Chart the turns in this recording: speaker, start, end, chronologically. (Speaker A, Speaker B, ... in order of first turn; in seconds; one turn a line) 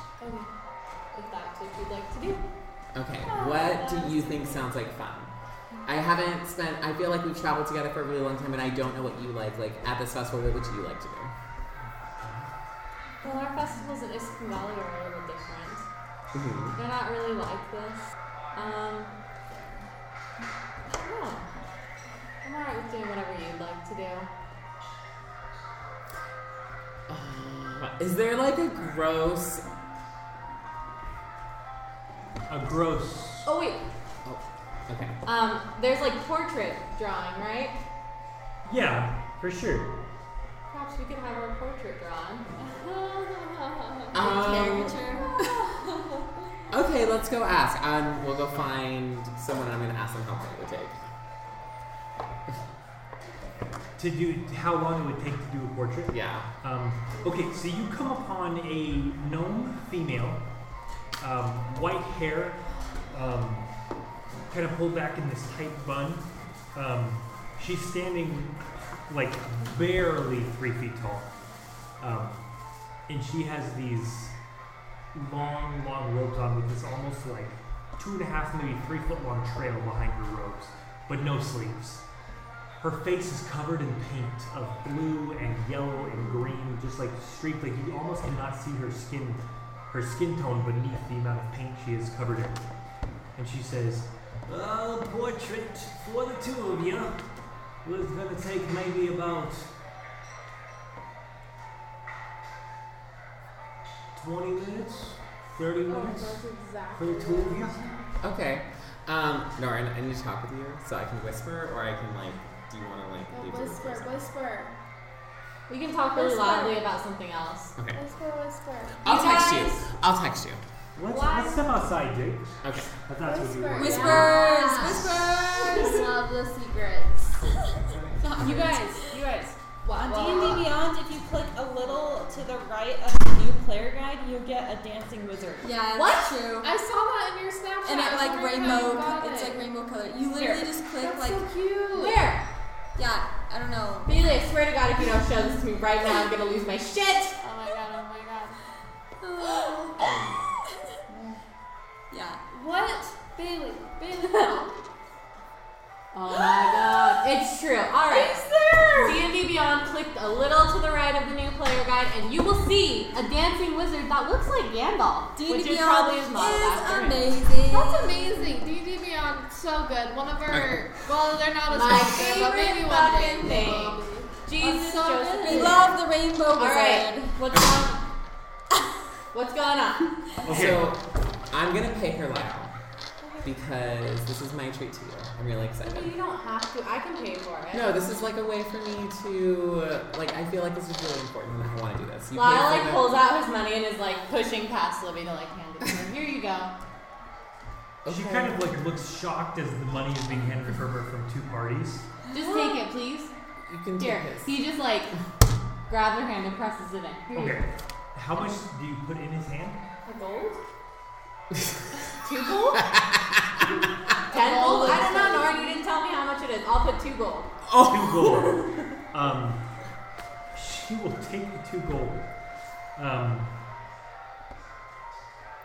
Speaker A: 0.2-0.5
Speaker A: 1.1-2.4
Speaker B: 2.9-5.3
Speaker C: 3.2-4.5
Speaker B: 5.8-11.3
Speaker A: 13.2-15.8
Speaker B: 16.3-16.8
Speaker A: 16.8-19.1
Speaker A: 20.9-21.5
Speaker A: 22.4-24.3
Speaker B: 27.1-29.6
Speaker D: 32.5-33.5
Speaker A: 33.5-33.8
Speaker B: 34.2-35.1
Speaker A: 35.2-37.8
Speaker D: 38.6-39.9
Speaker A: 40.7-44.8
Speaker B: 44.1-45.1
Speaker E: 44.2-45.4
Speaker C: 45.4-45.8
Speaker B: 46.7-51.0
Speaker D: 54.0-60.4
Speaker B: 56.1-56.5
Speaker D: 61.2-62.6
Speaker D: 63.1-63.7
Speaker D: 64.5-71.3
Speaker D: 72.0-72.4
Speaker D: 73.1-74.3
Speaker D: 75.1-82.0
Speaker D: 82.8-92.6
Speaker D: 93.3-97.2
Speaker D: 97.8-99.7
Speaker D: 104.1-106.4
Speaker C: 105.9-108.1
Speaker D: 106.9-107.7
Speaker B: 108.2-114.2
Speaker C: 113.3-114.7
Speaker A: 115.7-117.7
Speaker C: 116.1-116.9
Speaker B: 117.8-118.0
Speaker C: 117.9-119.5
Speaker B: 119.0-120.6
Speaker A: 119.0-119.8
Speaker D: 120.9-124.3
Speaker A: 121.1-121.6
Speaker B: 122.6-123.0
Speaker C: 123.2-127.4
Speaker E: 123.7-126.0
Speaker A: 124.0-125.0
Speaker F: 128.2-135.7
Speaker C: 128.4-128.8
Speaker C: 129.8-130.7
Speaker E: 135.6-136.8
Speaker A: 135.9-136.3
Speaker C: 136.6-139.6
Speaker E: 137.8-141.5
Speaker F: 140.3-140.7
Speaker C: 141.0-142.2
Speaker A: 141.9-142.4
Speaker E: 142.9-144.2
Speaker A: 144.1-147.4
Speaker C: 147.4-148.6
Speaker E: 149.2-150.2
Speaker E: 152.1-152.4
Speaker C: 152.5-154.8
Speaker A: 154.2-154.6
Speaker A: 156.1-158.5
Speaker C: 156.3-157.0
Speaker C: 158.1-159.3
Speaker A: 159.0-167.4
Speaker E: 165.3-168.3
Speaker C: 167.7-175.9
Speaker A: 171.7-176.0
Speaker E: 172.0-173.6
Speaker E: 175.4-177.4
Speaker A: 176.5-178.0
Speaker B: 177.5-177.8
Speaker A: 179.3-180.7
Speaker D: 180.4-180.9
Speaker B: 180.4-182.7
Speaker B: 183.4-186.1
Speaker A: 185.8-188.1
Speaker B: 187.7-193.2
Speaker A: 192.3-196.7
Speaker B: 198.0-198.6
Speaker D: 198.1-202.1
Speaker A: 202.3-203.3
Speaker E: 202.5-202.8
Speaker B: 203.7-204.6
Speaker A: 204.0-205.1
Speaker A: 205.9-207.6
Speaker D: 207.3-209.8
Speaker A: 210.0-210.6
Speaker A: 212.2-212.9
Speaker B: 212.8-213.6
Speaker C: 214.3-215.8
Speaker A: 214.3-217.5
Speaker B: 217.6-218.6
Speaker D: 217.8-219.6
Speaker D: 220.5-222.3
Speaker D: 222.9-223.5